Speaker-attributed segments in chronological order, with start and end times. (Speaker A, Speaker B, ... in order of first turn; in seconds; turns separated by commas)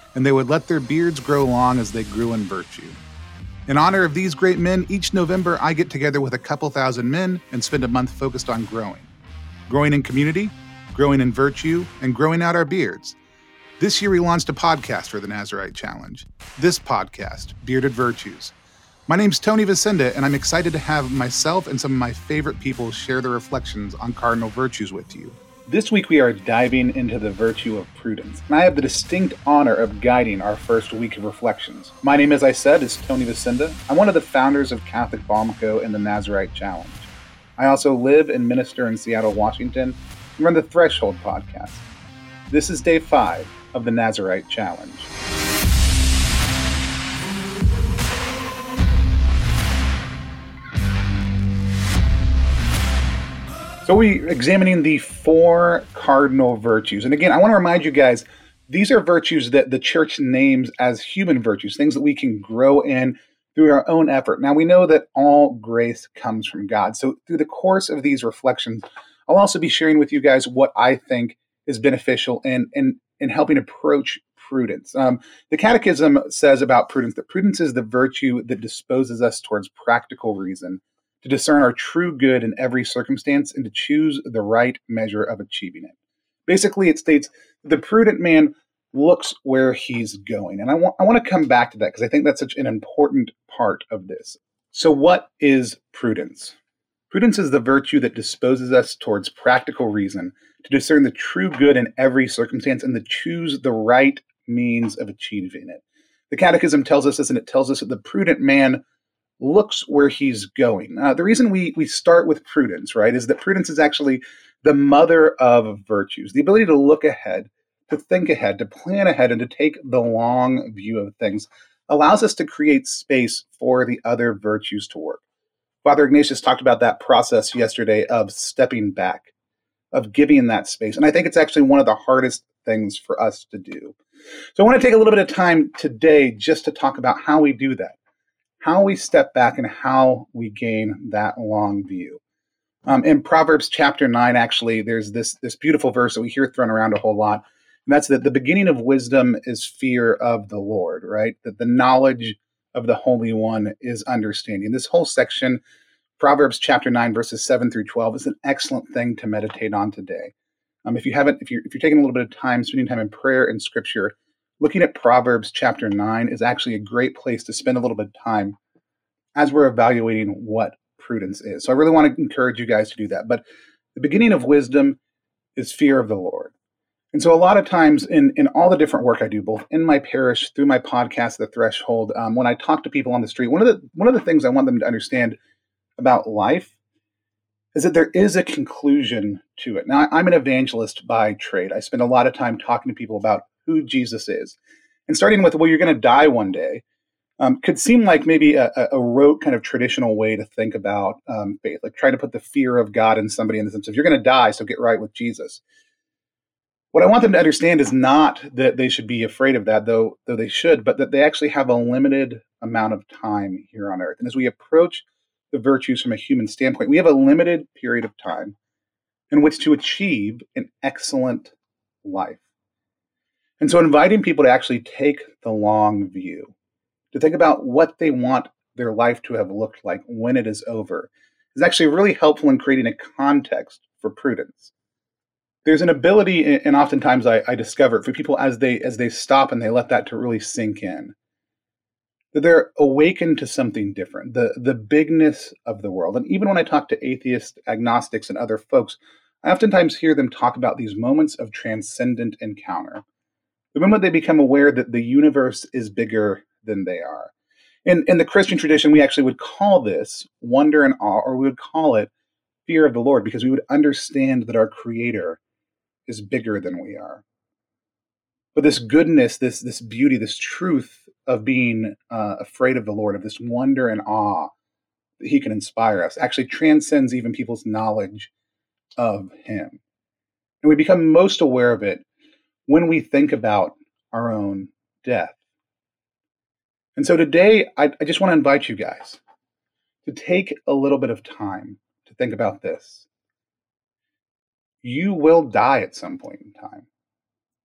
Speaker A: 0.1-3.0, Speaker A: 3.7-9.1, Speaker A: 9.7-13.2, Speaker A: 13.8-18.5, Speaker A: 19.1-41.8, Speaker A: 42.5-45.1, Speaker A: 53.8-85.9, Speaker A: 86.5-96.5, Speaker A: 97.1-108.8, Speaker A: 109.4-125.2, Speaker A: 125.8-129.3, Speaker A: 129.9-134.0, Speaker A: 134.5-138.0, Speaker A: 138.6-142.2, Speaker A: 142.8-155.6, Speaker A: 156.2-160.3, Speaker A: 160.8-168.6, Speaker A: 169.3-173.4, Speaker A: 173.9-175.0, Speaker A: 175.6-176.5, Speaker A: 177.1-185.4, Speaker A: 186.0-186.7, Speaker A: 187.7-196.8, Speaker A: 197.4-205.6, Speaker A: 206.9-218.5, Speaker A: 219.3-222.4, Speaker A: 223.6-226.5, Speaker A: 227.1-234.7, Speaker A: 235.6-241.1, Speaker A: 242.3-253.0, Speaker A: 253.7-257.3, Speaker A: 257.9-262.1, Speaker A: 262.6-265.4, Speaker A: 266.1-267.2, Speaker A: 268.5-274.5, Speaker A: 275.2-278.3, Speaker A: 279.0-279.8, Speaker A: 280.6-282.0, Speaker A: 282.7-285.4, Speaker A: 286.9-289.2, Speaker A: 290.0-293.1, Speaker A: 294.8-296.9